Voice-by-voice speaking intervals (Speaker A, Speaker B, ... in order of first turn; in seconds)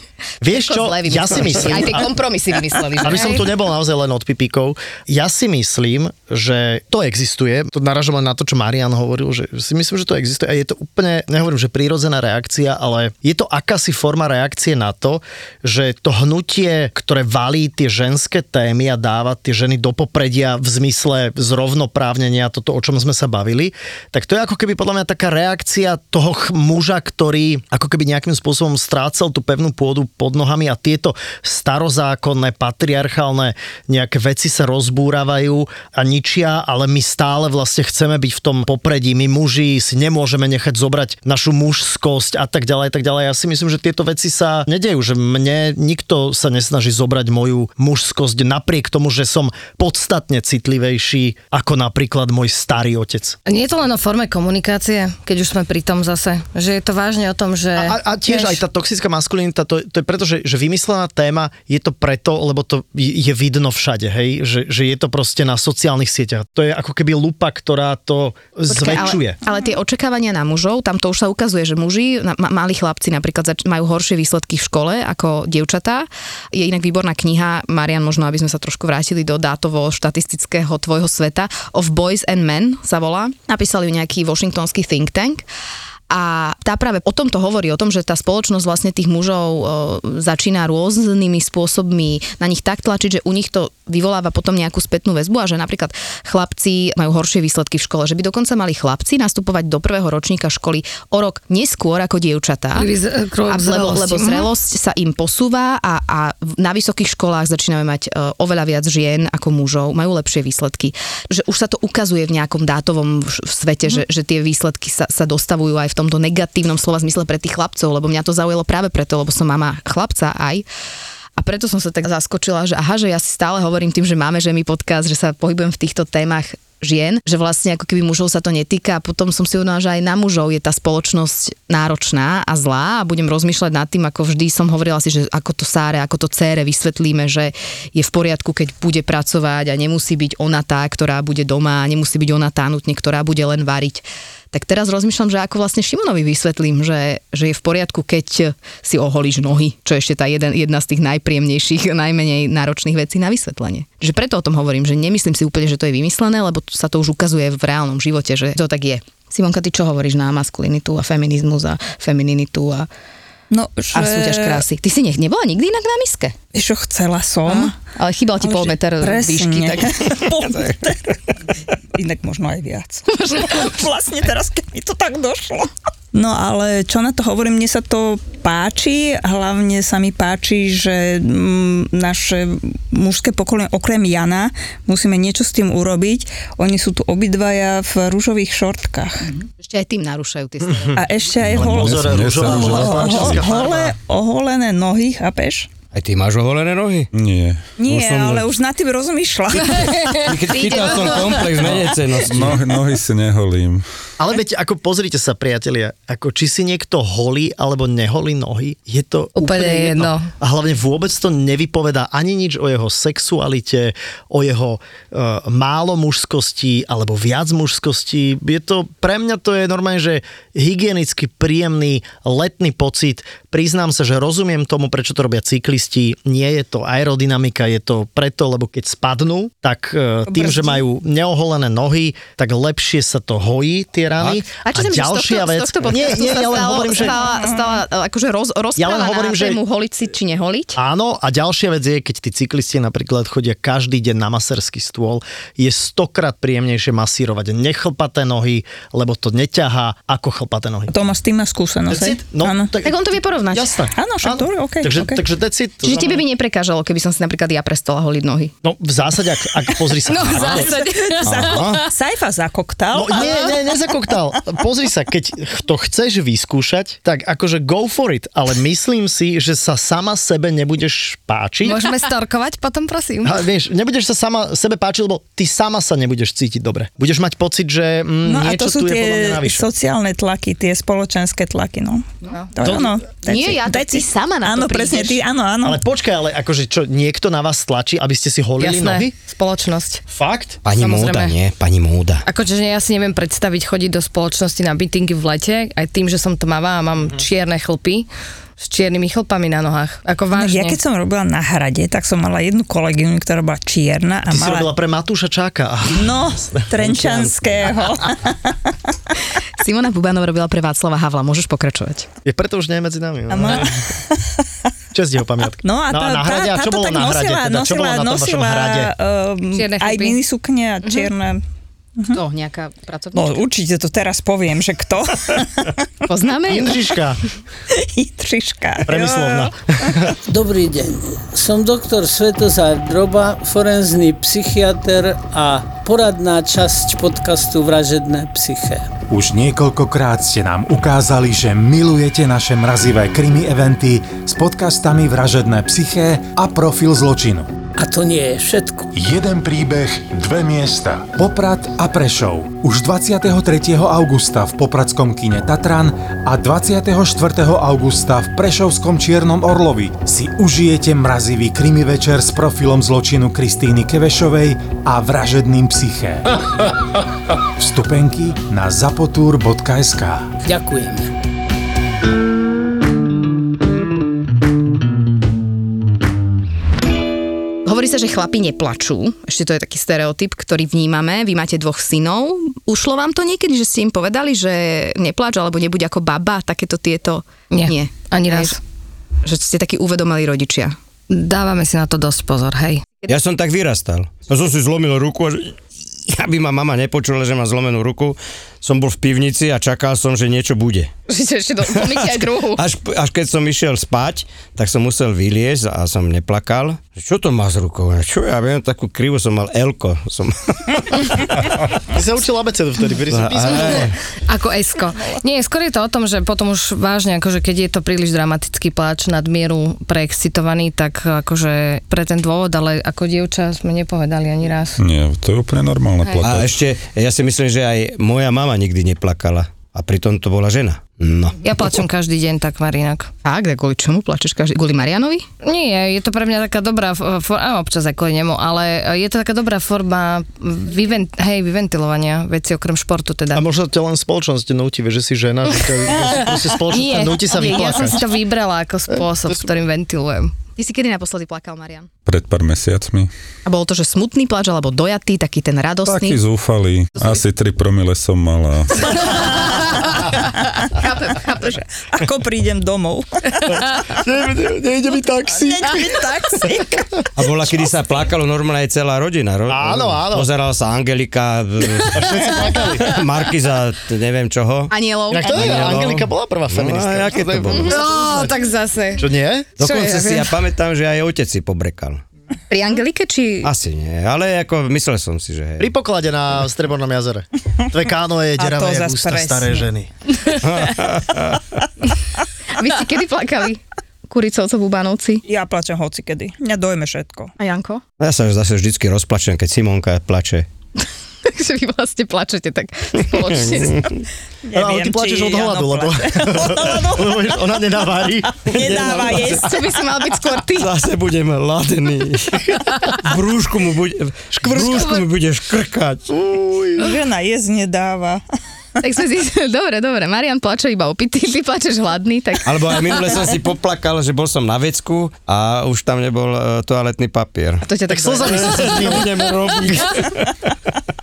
Speaker A: 0.4-2.1, 3.0-53.4, 57.8-69.4, 191.5-194.0, 204.2-237.3, 238.8-239.6, 240.8-250.9, 251.9-256.2, 258.6-260.7, 262.9-271.8, 273.2-279.7, 282.6-283.0, 285.6-289.1, 290.1-290.6, 304.3-306.7, 312.2-313.8, 314.9-318.9, 326.5-327.2, 328.9-330.1, 411.9-413.9, 443.3-448.0, 463.5-466.9, 469.5-470.3, 471.9-473.0, 475.1-478.4, 479.0-479.5, 485.6-489.9, 504.5-509.4, 514.3-515.0, 516.1-517.0, 527.9-529.1
Speaker B: 0.5-3.5, 68.7-85.5, 86.1-102.9, 103.5-120.7, 121.4-162.9, 163.9-166.3, 167.5-170.3, 173.1-173.7, 189.6-191.1, 200.5-201.6, 234.6-240.8, 252.8-253.7, 255.8-258.5, 260.4-261.2, 283.2-285.2, 309.6-312.1, 320.8-321.1, 322.1-323.4, 326.1-326.8, 377.6-388.6, 389.2-390.8, 401.1-402.6, 433.2-435.3, 450.6-451.9, 453.4-456.2, 458.9-460.0, 460.7-461.6, 474.7-475.9, 482.5-483.5, 492.6-495.2, 497.4-497.8, 501.3-504.0, 509.1-510.8, 518.8-523.1, 527.6-529.1
Speaker C: 53.5-58.6, 102.8-104.5, 209.4-210.3, 260.6-261.1, 271.6-273.4, 288.6-290.0, 290.7-291.4, 292.2-300.8, 319.5-320.2, 387.5-388.6, 391.1-392.8, 414.3-424.8, 431.4-433.1, 435.4-443.4, 446.7-450.4, 477.7-480.4
Speaker D: 163.5-164.6, 166.5-167.8, 168.4-171.2, 171.9-189.4, 191.0-195.7, 197.8-200.2, 230.3-230.8, 237.0-237.8, 250.9-252.7, 253.9-255.2, 260.4-263.7, 278.2-285.8, 300.4-304.7, 305.9-308.8, 313.3-314.4, 315.6-321.4, 323.1-325.9, 327.7-330.0, 461.9-463.4, 465.3-466.8, 488.4-489.7, 495.2-497.3, 504.4-507.4, 508.4-509.7, 516.8-518.2
Speaker E: 191.4-193.4, 197.1-197.7, 202.3-203.8, 424.8-426.6, 452.1-453.1, 455.9-459.3
Speaker F: 195.9-197.1, 197.8-198.5, 200.2-202.6, 261.2-261.8, 290.6-292.2, 306.8-307.3, 393.1-400.9, 401.7-411.7, 413.1-414.0, 426.2-431.4, 467.2-474.7, 475.2-477.9, 479.6-482.0, 483.4-485.7, 490.3-491.6, 498.0-500.5, 503.1-504.0, 508.6-508.8, 510.6-516.1, 522.4-530.5
Speaker G: 330.2-338.9, 347.8-348.9, 370.4-371.1
Speaker H: 339.1-347.5, 348.9-366.3, 367.6-370.3